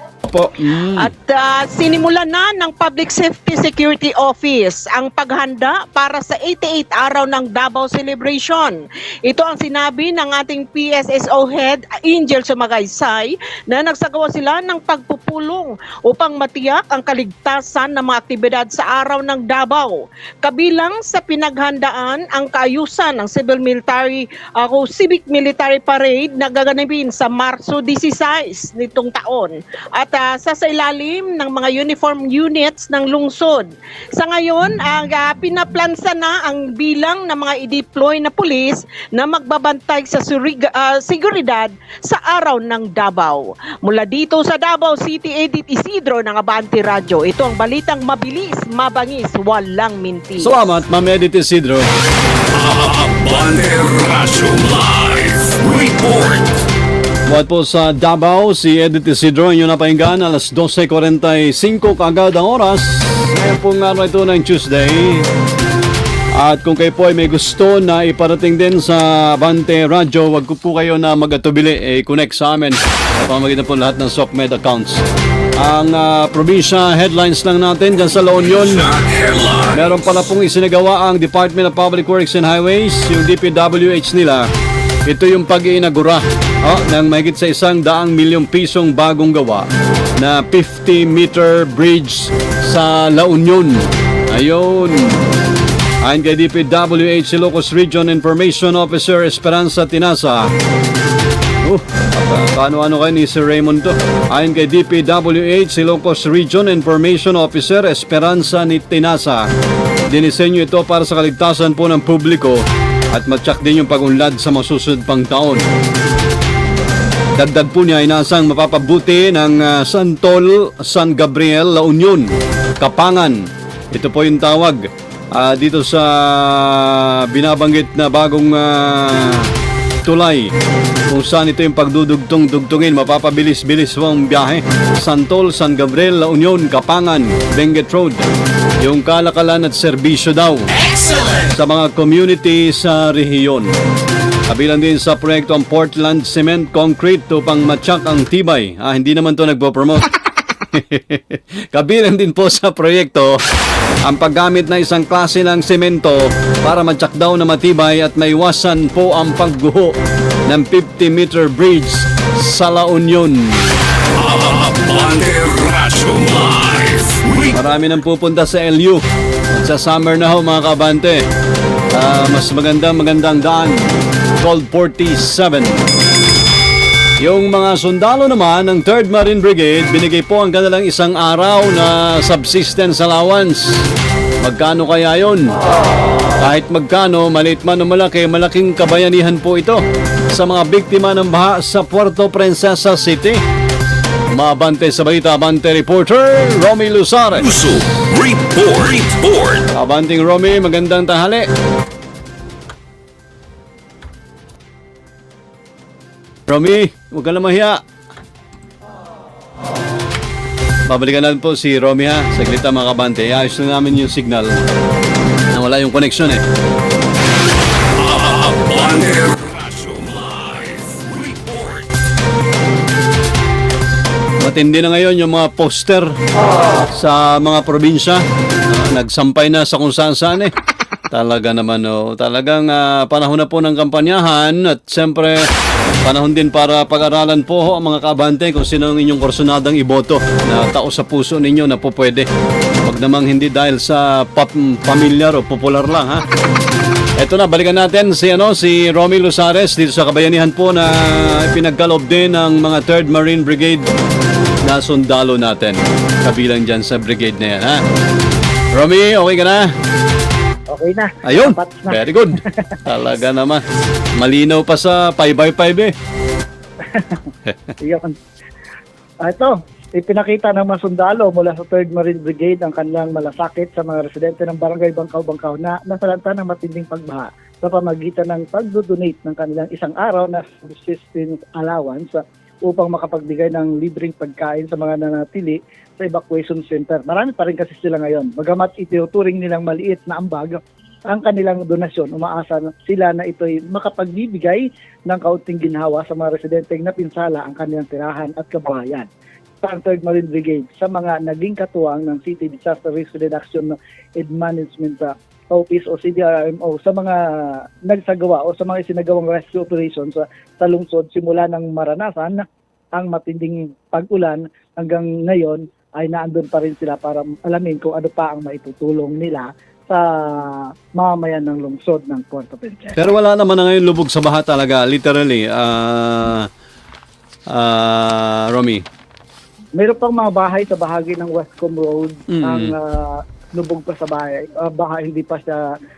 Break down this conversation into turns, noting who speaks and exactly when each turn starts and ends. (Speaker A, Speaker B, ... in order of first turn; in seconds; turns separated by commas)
Speaker A: 0.2-1.1, Speaker B: 0.9-50.5, Speaker A: 50.4-51.9, Speaker C: 52.5-56.6, Speaker A: 57.3-65.3, Speaker A: 66.3-75.0, Speaker A: 75.6-78.9, Speaker C: 78.4-80.0, Speaker A: 79.7-84.5, Speaker A: 85.0-95.2, Speaker A: 96.0-100.5, Speaker A: 101.6-109.5, Speaker A: 110.1-115.7, Speaker A: 117.4-123.4, Speaker A: 123.9-124.8, Speaker A: 125.3-129.5, Speaker A: 130.0-130.5, Speaker A: 131.1-138.2, Speaker A: 138.8-143.7, Speaker A: 144.5-150.1, Speaker A: 150.6-153.4, Speaker A: 154.0-159.9, Speaker A: 160.5-163.8, Speaker C: 164.2-167.6, Speaker A: 167.5-171.2, Speaker A: 171.9-175.8, Speaker A: 177.2-183.8, Speaker A: 184.4-185.6, Speaker A: 186.4-193.4, Speaker A: 194.3-197.6, Speaker C: 197.3-199.7, Speaker A: 199.7-201.5, Speaker A: 206.5-207.8, Speaker A: 210.9-214.5, Speaker A: 215.5-216.4, Speaker C: 217.9-221.9, Speaker A: 224.4-226.2, Speaker A: 226.9-230.5, Speaker A: 231.1-235.5, Speaker A: 236.0-242.3, Speaker A: 242.8-246.2, Speaker A: 247.2-253.9, Speaker A: 254.7-257.8, Speaker A: 258.7-259.7, Speaker D: 260.7-262.8, Speaker A: 261.2-263.6, Speaker A: 264.2-265.9, Speaker D: 266.9-268.1, Speaker A: 267.5-267.7, Speaker D: 269.2-299.1, Speaker D: 299.6-323.0, Speaker A: 323.0-326.5, Speaker A: 327.5-328.8, Speaker D: 329.8-335.6, Speaker A: 332.3-332.7